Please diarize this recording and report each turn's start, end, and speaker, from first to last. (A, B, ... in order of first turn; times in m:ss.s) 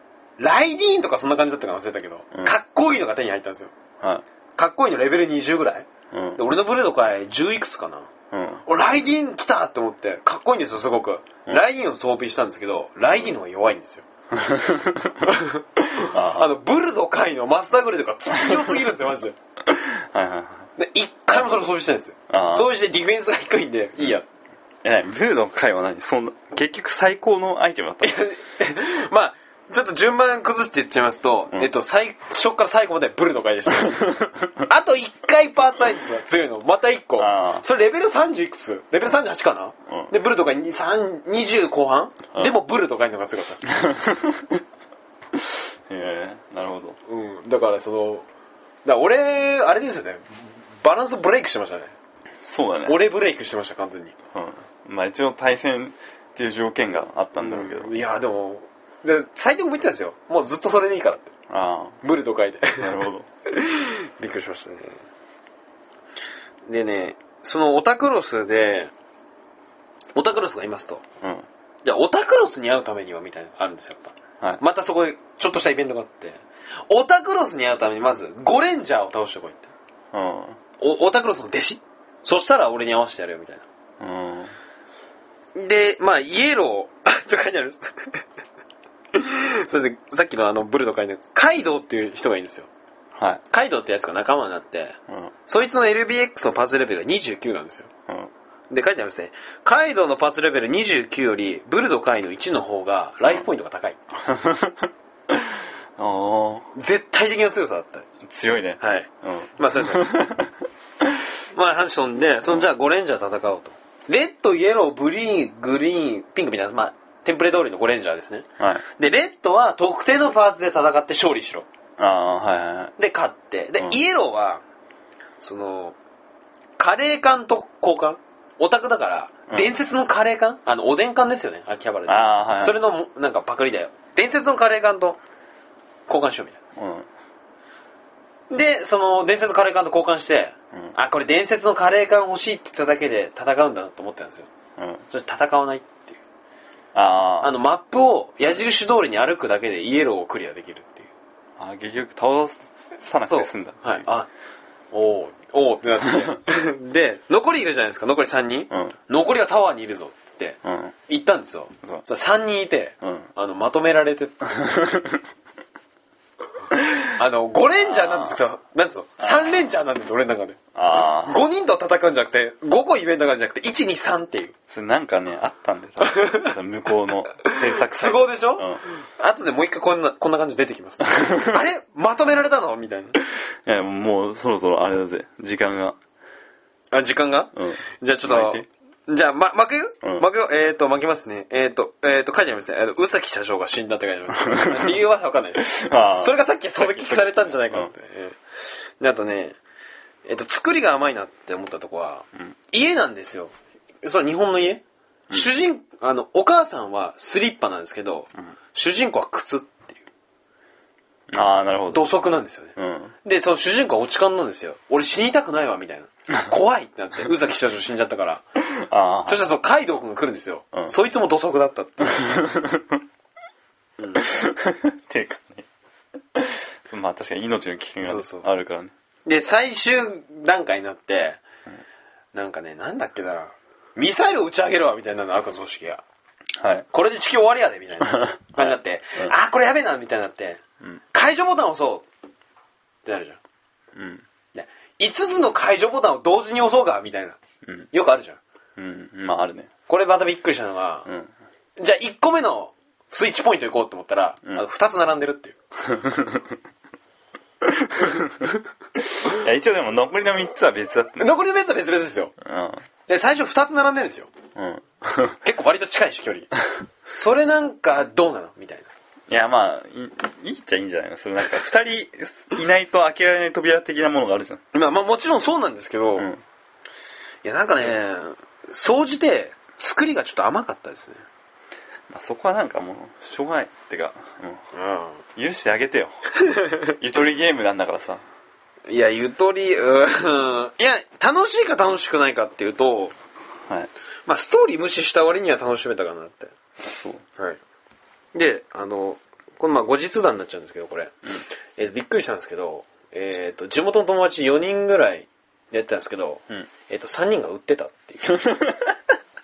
0:00.4-0:03.7 A
0:04.6-0:08.1 A
0:06.1-0:06.4 B
0:08.3-0:08.6 B
0:08.6-0:14.1 A
0:14.3-0:15.3 B
0:15.2-0:19.4 A
0:16.0-0:16.5 B
0:18.4-0:18.8 B
0:19.7-0:20.7 B
0:20.8-0:24.3 A
0:22.3-0:22.7 B
0:24.8-0:28.2 B
0:28.0-0:43.8 A
0:33.8-0:34.3 B
0:37.2-0:37.6 B
0:43.7-0:44.6 B
0:45.3-0:47.0 B
0:47.1-0:48.2 A
0:48.8-0:51.9 A
0:52.5-0:53.0 B
0:52.9-0:54.2 A
0:54.3-0:58.0 B
0:57.4-1:01.3 A
1:01.5-1:02.0 B
1:02.0-1:02.9 A
1:02.8-1:03.3 B
1:03.5-1:05.0 A
1:06.7-1:08.9 A
1:10.2-1:11.0 A
1:11.2-1:11.5 B
1:11.8-1:19.7 A
1:20.1-1:20.6 B
1:20.8-1:23.6 A
1:24.0-1:24.5 B
1:25.6-1:28.2 A
1:29.1-1:32.7 A
1:33.2-1:33.4 B
1:33.5-1:37.9 A
1:38.7-1:44.0 A
1:44.2-1:46.7 B
1:46.7-1:48.1 A
1:48.2-1:51.2 B
1:48.8-1:50.1 A
1:51.5-2:01.7 A
1:58.6-1:58.8 B
2:02.0-2:02.9 B
2:03.0-2:04.6 A
2:05.4-2:06.0 A
2:06.8-2:15.2 A
2:12.1-2:12.8 B
2:16.1-2:16.6 A
2:16.8-2:17.1 B
2:18.5-2:24.5 A
2:24.8-2:25.0 B
2:25.1-2:26.2 A
2:26.9-2:27.6 B
2:27.4-2:31.1 A
2:31.6-2:34.0 B
2:33.3-2:34.3 A
2:34.9-2:44.4 A
2:40.6-2:41.0 B
2:43.0-2:43.3 B
2:44.5-2:45.2 B
2:47.2-2:54.6 A
2:47.8-2:48.4 B
2:49.2-2:49.6 B
2:50.8-2:51.4 B
2:54.7-2:58.8 B
2:56.0-2:56.6 A
2:57.4-3:03.2 A
3:03.6-3:06.0 B
3:06.9-3:18.4 A
3:07.6-3:08.7 B
3:14.4-3:14.9 B
3:15.6-3:17.9 B
3:19.0-3:19.6 A
3:20.2-3:30.0 A
3:31.3-3:32.2 B
3:31.9-3:38.4 A
3:32.8-3:33.2 B
3:38.7-3:39.5 B
3:39.3-3:42.4 A
3:42.2-3:43.0 B
3:44.0-3:44.3 A
3:44.2-3:45.7 B
3:46.4-3:48.9 B
3:48.0-3:48.5 A
3:49.3-3:51.4 A
3:52.3-3:56.0 A
3:56.6-3:56.9 B
3:56.9-4:02.1 A
3:58.2-3:59.3 B
4:03.0-4:03.4 A
4:04.0-4:04.2 B
4:04.6-4:07.4 A
4:07.9-4:08.4 A
4:08.8-4:09.7 B
4:09.9-4:11.1 A
4:11.8-4:15.6 A
4:15.8-4:16.6 B
4:17.6-4:18.5 B
4:19.0-4:21.4 B
4:21.2-4:22.3 A
4:22.4-4:22.8 B
4:23.1-4:24.3 A
4:24.6-4:25.4 B
4:25.4-4:26.5 A
4:27.1-4:28.9 A
4:29.3-4:34.6 B
4:34.7-4:36.3 A
4:36.2-4:36.4 B
4:37.4-4:41.2 A
4:42.1-4:44.7 B
4:44.7-4:45.2 A
4:45.4-4:48.2 B
4:46.4-4:46.9 A
4:48.9-4:53.2 A
4:54.3-4:56.5 A
4:56.8-4:57.2 B
4:58.3-5:01.2 A
5:01.8-5:08.6 A
5:08.4-5:08.9 B